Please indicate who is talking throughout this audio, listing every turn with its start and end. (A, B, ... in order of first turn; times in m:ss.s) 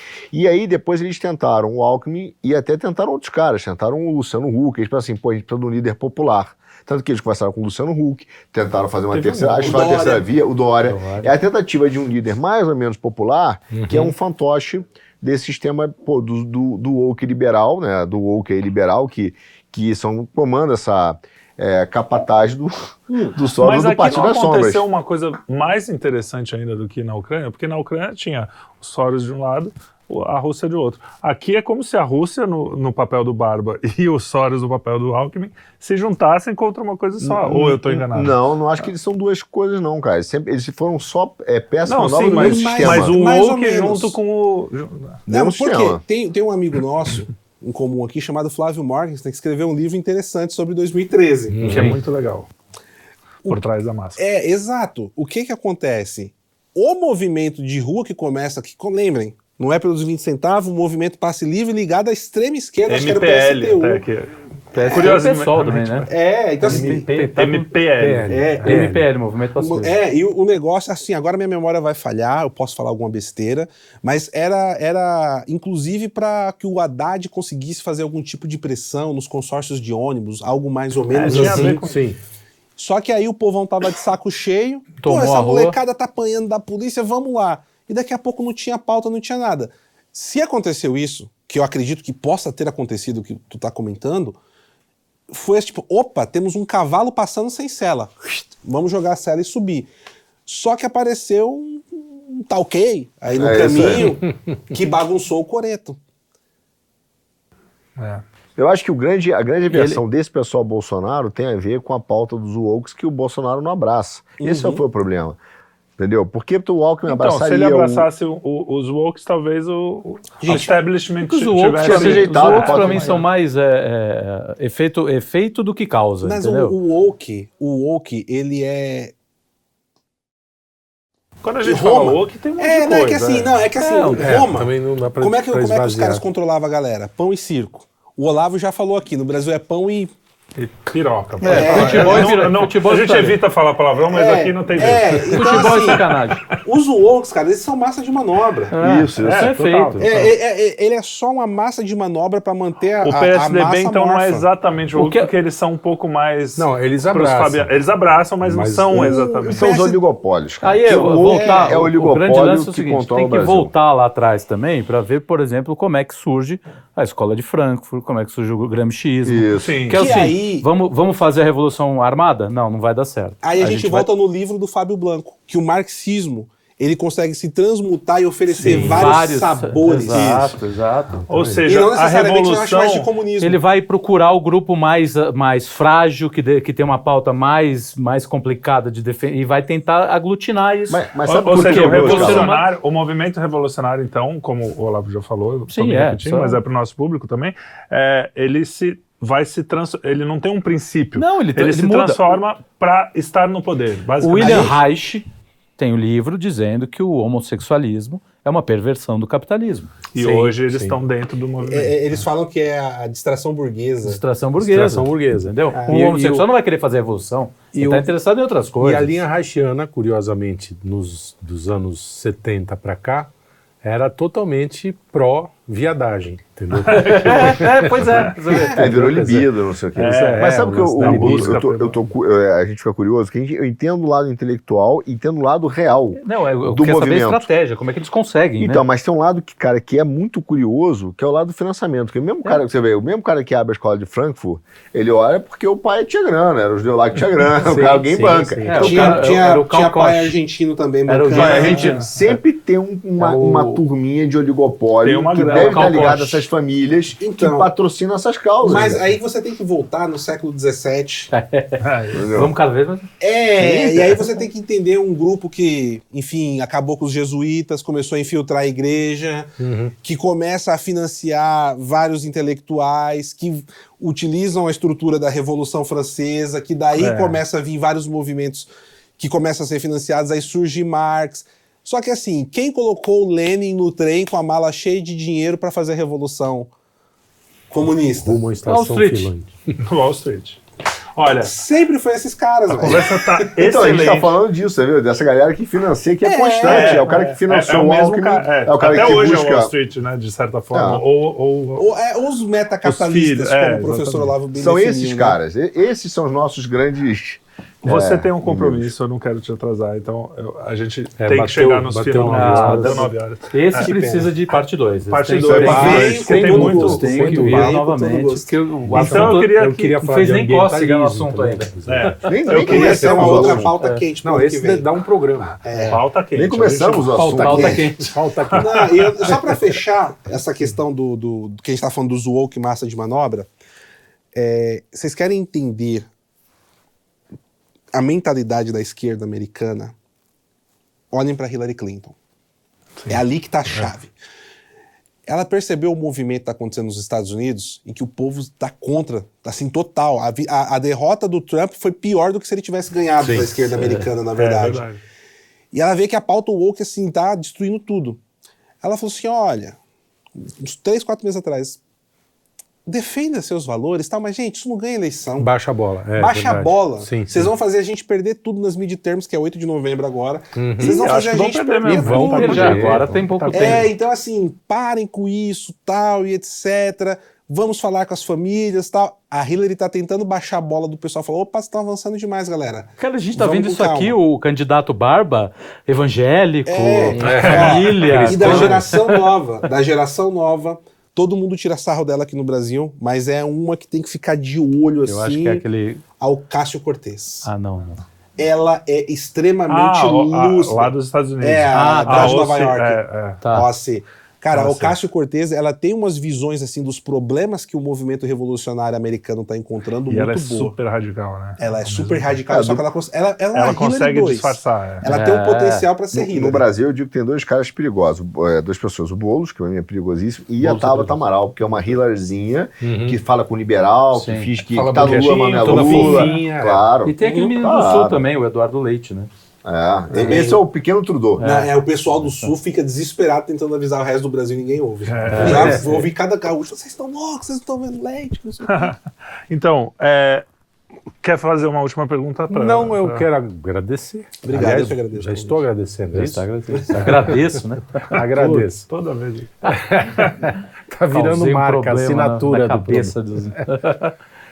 0:00.3-0:24.8 A
0:09.1-0:10.0 B
0:09.6-0:10.2 C
0:10.8-0:11.4 D
0:13.7-0:14.1 E
0:23.4-0:38.4 B
0:37.2-0:43.2 A
0:41.8-0:45.2 B
0:42.4-0:44.2 C
0:45.3-0:46.0 A
0:45.3-0:51.7 C
0:51.5-0:52.0 E
0:51.6-0:52.5 B
0:51.6-0:52.0 D
0:53.4-0:54.2 B
0:54.2-1:04.0 C
1:02.9-1:06.1 B
1:04.7-1:07.7 D
1:04.9-1:05.2 C
1:06.0-1:07.4 C
1:07.4-1:08.6 B
1:08.0-1:09.1 E
1:08.3-1:08.9 C
1:08.6-1:10.0 D
1:09.6-1:21.8 C
1:21.1-1:22.0 B
1:21.2-1:22.2 E
1:22.8-1:34.4 C
1:25.0-1:25.8 D
1:35.3-1:39.9 C
1:40.5-1:46.0 C
1:43.4-1:44.2 A
1:48.0-1:48.2 B
1:48.6-1:55.4 A
1:49.7-1:50.0 D
1:54.4-1:54.8 C
1:56.0-1:58.1 A
1:57.1-2:03.2 B
2:00.4-2:00.7 C
2:01.2-2:06.8 D
2:01.8-2:03.2 A
2:02.8-2:03.2 C
2:06.2-2:09.1 C
2:11.4-2:13.6 B
2:11.6-2:20.1 C
2:13.8-2:14.4 D
2:14.2-2:16.2 E
2:20.6-2:26.6 B
2:21.4-2:23.4 D
2:21.4-2:22.3 C
2:21.6-2:22.1 E
2:24.1-2:26.1 C
2:25.3-2:26.4 D
2:26.6-2:28.8 C
2:28.7-2:30.1 D
2:28.8-2:29.6 A
2:29.2-2:30.3 B
2:30.0-2:34.5 C
2:33.0-2:39.7 B
2:35.0-2:35.3 D
2:36.6-2:37.7 E
2:38.4-2:39.2 E
2:39.0-2:40.0 C
2:39.5-2:43.7 A
2:40.6-2:54.1 D
2:40.9-2:41.9 C
2:49.2-2:49.8 A
2:49.6-2:50.0 B
2:49.9-2:50.7 C
2:53.4-3:00.6 C
2:58.6-3:01.2 D
2:58.6-2:59.2 E
3:01.3-3:03.1 B
3:01.3-3:01.6 E
3:01.7-3:03.6 C
3:03.4-3:12.7 D
3:10.9-3:12.5 A
3:11.3-3:24.8 B
3:15.7-3:16.6 D
3:21.2-3:22.4 D
3:24.2-3:25.3 D
3:24.4-3:24.8 C
3:25.8-3:30.6 D
3:30.2-3:32.0 B
3:30.7-3:31.0 E
3:31.6-3:34.2 C
3:34.0-3:39.1 D
3:34.6-3:36.4 E
3:35.7-3:36.4 C
3:37.7-3:38.1 E
3:38.8-3:43.3 E
3:43.8-3:51.6 E
3:46.9-3:48.9 D
3:46.9-3:48.3 B
3:48.5-3:49.0 C
3:48.6-3:57.5 A
3:50.0-3:52.1 B
3:56.2-3:58.8 D
3:58.6-4:09.3 A
4:07.6-4:09.0 E
4:07.8-4:10.4 D
4:08.8-4:12.0 C
4:11.1-4:12.4 D
4:11.3-4:12.1 B
4:11.4-4:19.0 A
4:13.2-4:13.8 D
4:15.0-4:16.2 B
4:15.5-4:16.5 D
4:17.2-4:17.7 C
4:18.6-4:21.3 C
4:21.3-4:23.1 D
4:21.8-4:22.3 B
4:22.1-4:22.5 A
4:23.2-4:46.7 C
4:23.6-4:24.3 A
4:29.6-4:29.9 E
4:37.0-4:37.4 B
4:47.7-4:48.5 C
4:48.2-4:49.7 E
4:48.7-4:49.3 D
4:49.8-4:50.6 B
4:51.2-4:51.6 B
4:51.4-4:53.5 C
4:52.7-4:54.3 B
4:53.6-4:59.7 A
4:56.2-4:57.1 C
4:56.6-5:01.9 B
5:00.7-5:01.0 A
5:01.8-5:05.4 C
5:02.8-5:04.4 B
5:04.5-5:08.9 A
5:07.8-5:13.9 B
5:11.2-5:13.1 E
5:12.3-5:21.7 D
5:13.8-5:14.3 C
5:14.5-5:17.7 B
5:15.5-5:16.1 A
5:15.6-5:18.6 C
5:15.7-5:17.8 E
5:18.9-5:25.6 E
5:18.9-5:20.0 B
5:21.9-5:23.6 B
5:22.3-5:23.7 A
5:22.6-5:24.9 C
5:25.6-5:26.0 C
5:25.7-5:26.0 D
5:25.8-5:27.2 B
5:26.4-5:27.8 A
5:27.1-5:28.1 D
5:27.3-5:28.9 E
5:27.5-5:27.9 C
5:28.0-5:29.6 B
5:28.5-5:33.5 C
5:34.4-5:36.1 C
5:37.9-5:39.9 C
5:41.1-5:42.2 C
5:43.1-5:44.1 C
5:45.3-5:54.8 C
5:53.2-5:53.6 E
5:53.7-5:54.1 D
5:54.4-5:55.0 B
5:55.7-5:58.2 C
5:58.8-5:59.8 C
6:00.4-6:01.8 C
6:02.9-6:05.5 C
6:05.4-6:07.5 E
6:06.2-6:12.9 C
6:10.6-6:11.1 E
6:10.8-6:13.9 B
6:11.9-6:13.4 E
6:12.3-6:13.9 D
6:13.5-6:24.2 C
6:23.0-6:29.3 D
6:26.7-6:35.6 C
6:27.1-6:28.8 E
6:27.2-6:28.8 B
6:35.0-6:36.0 D
6:36.2-6:37.5 C
6:37.4-6:38.0 D
6:38.4-6:50.8 C
6:39.7-6:43.4 B
6:41.7-6:42.5 D
6:43.4-6:43.7 D
6:44.5-6:44.9 B
6:50.1-6:52.4 B
6:51.6-6:56.6 C
6:52.5-6:52.8 A
6:53.5-6:55.1 B
6:55.0-6:55.9 D
6:56.1-7:08.2 A
7:00.6-7:01.2 D
7:02.8-7:03.2 E
7:04.1-7:04.5 D
7:04.7-7:06.9 E
7:05.7-7:06.4 C
7:06.0-7:06.4 D
7:07.0-7:09.3 D
7:07.2-7:07.6 C
7:09.6-7:11.5 A
7:10.1-7:10.6 C
7:10.1-7:10.4 E
7:11.4-7:11.8 D
7:11.4-7:18.9 C
7:15.1-7:15.9 B
7:15.3-7:16.0 E
7:15.5-7:15.8 D
7:18.7-7:19.0 B
7:19.5-7:20.4 B
7:21.2-7:23.3 B
7:22.5-7:27.4 E
7:24.4-7:25.7 C
7:26.1-7:28.2 D
7:28.1-7:28.9 E
7:28.1-7:29.6 B
7:29.7-7:33.7 E
7:31.1-7:34.1 D